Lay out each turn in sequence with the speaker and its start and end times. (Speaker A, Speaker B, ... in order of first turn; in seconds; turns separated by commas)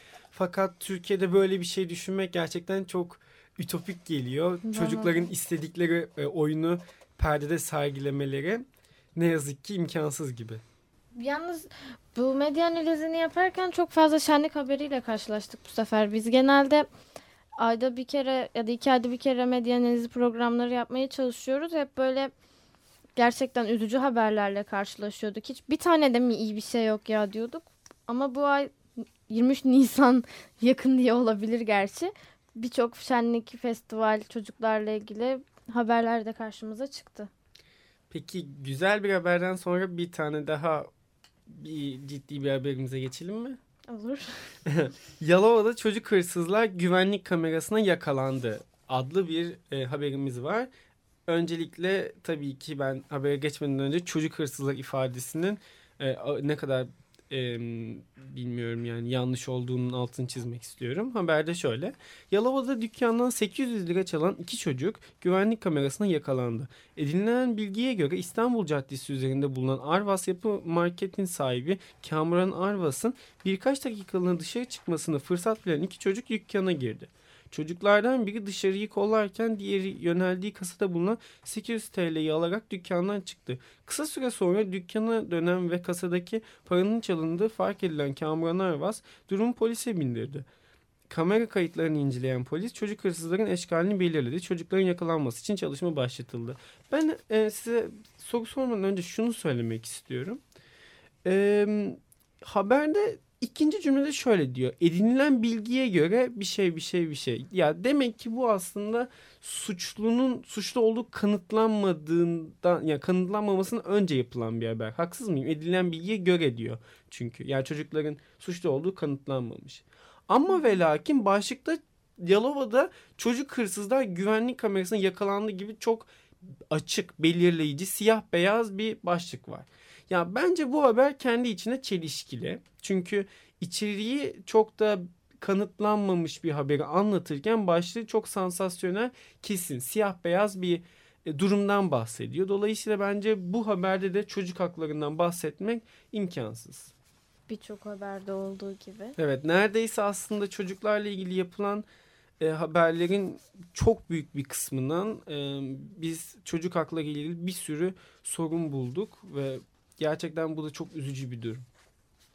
Speaker A: 0.3-10.6, Speaker B: 4.6-5.3, Speaker B: 11.1-16.9, Speaker B: 17.6-22.3, Speaker B: 23.2-28.8, Speaker B: 29.3-37.3, Speaker A: 38.1-40.9, Speaker A: 41.5-43.6, Speaker B: 43.9-44.3, Speaker A: 44.6-50.7, Speaker A: 51.3-90.5, Speaker A: 91.1-100.4, Speaker A: 101.2-126.1, Speaker A: 126.7-146.9, Speaker B: 147.5-149.2, Speaker A: 149.2-151.8, Speaker A: 152.4-161.6